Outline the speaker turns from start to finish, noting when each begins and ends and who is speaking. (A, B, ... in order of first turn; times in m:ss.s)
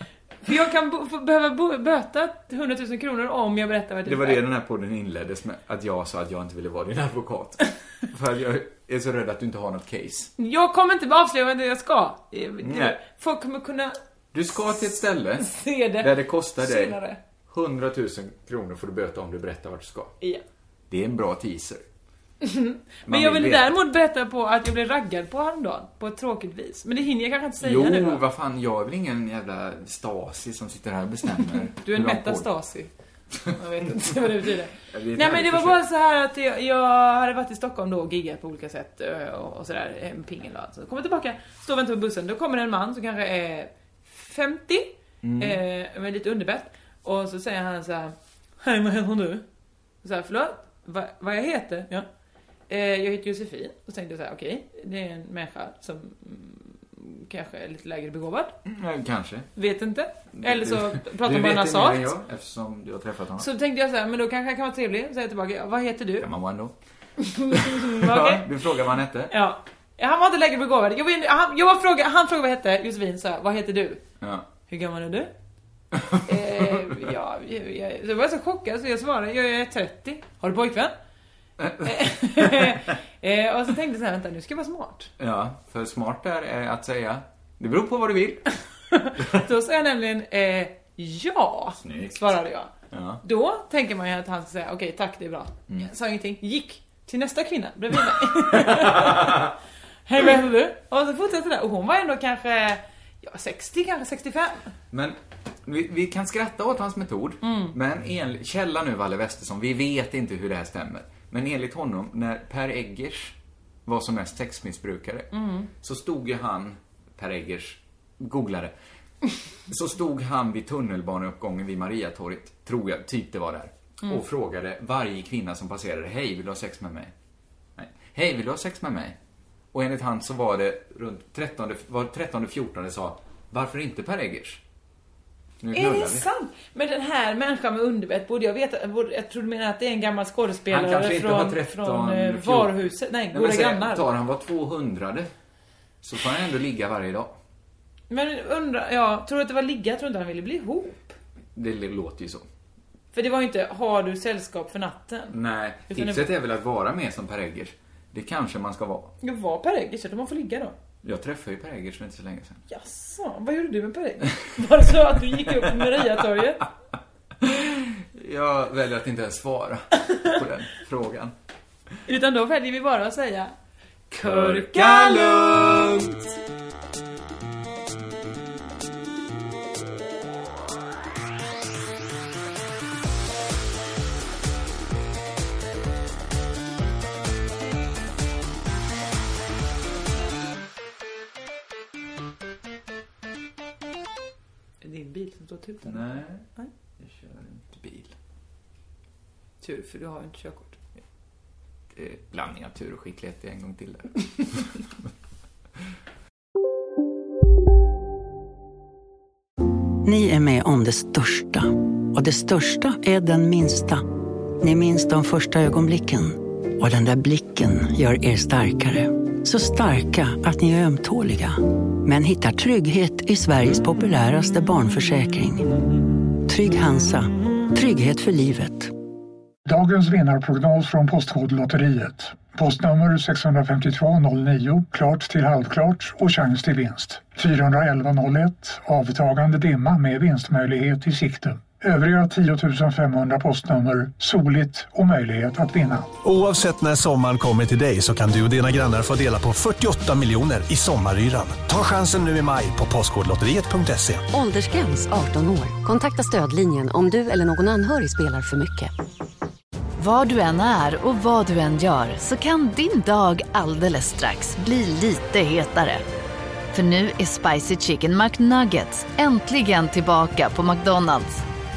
0:00.4-0:04.4 A
0:04.0-0:10.3 B
0:10.4-0:14.0 A
0:12.6-0:13.0 B
0:14.3-0:20.1 B
0:15.4-0:17.2 A
0:20.9-0:21.8 B
0:22.4-0:28.2 A
0:23.1-0:23.7 B
0:27.6-0:32.5 B
0:31.8-0:32.9 A
0:33.5-0:49.4 A
0:33.8-0:34.2 B
0:34.9-0:35.8 B
0:45.2-0:45.6 B
0:50.0-0:52.0 A
0:52.7-0:58.5 A
0:58.6-0:59.5 B
0:59.6-1:02.1 A
1:00.3-1:03.5 B
1:03.4-1:06.3 A
1:06.2-1:06.7 B
1:07.2-1:08.5 A
1:07.5-1:09.3 B
1:09.3-1:14.0 A
1:14.2-1:14.5 B
1:14.7-1:15.3 A
1:15.9-1:17.0 B
1:16.2-1:20.9 A
1:21.6-1:21.9 B
1:21.8-1:25.1 A
1:22.4-1:22.8 B
1:25.2-1:28.4 B
1:28.9-1:32.7 A
1:31.8-1:32.3 B
1:32.9-1:33.2 B
1:33.2-1:39.5 A
1:38.5-1:39.5 B
1:40.1-1:44.7 A
1:44.9-1:55.3 B
1:47.4-1:47.7 A
1:55.3-1:55.7 A
1:55.8-1:58.7 B
1:59.7-2:07.1 B
2:07.8-2:09.2 B
2:09.7-2:14.6 B
2:15.6-2:16.2 B
2:15.7-2:24.0 A
2:20.7-2:25.3 B
2:26.0-2:27.4 B
2:28.1-2:31.1 A
2:31.5-2:32.4 B
2:33.1-2:35.4 A
2:35.3-2:39.1 B
2:35.9-2:36.3 A
2:39.2-2:40.7 A
2:41.0-2:42.6 B
2:42.7-2:46.6 A
2:44.3-2:46.4 B
2:47.4-2:51.3 B
2:52.1-2:53.5 A
2:54.1-2:56.3 B
2:54.2-2:56.1 A
3:14.8-3:16.7 A
3:15.8-3:16.5 B
3:17.0-3:18.2 B
3:19.6-3:20.8 A
3:21.9-3:24.7 B
3:30.0-3:34.0 C
3:34.6-3:45.7 C
3:46.4-3:48.9 C
3:49.6-4:06.1 D
4:06.2-4:14.2 E
4:14.3-4:18.9 F
4:20.0-4:26.0 G
4:26.7-4:31.4 G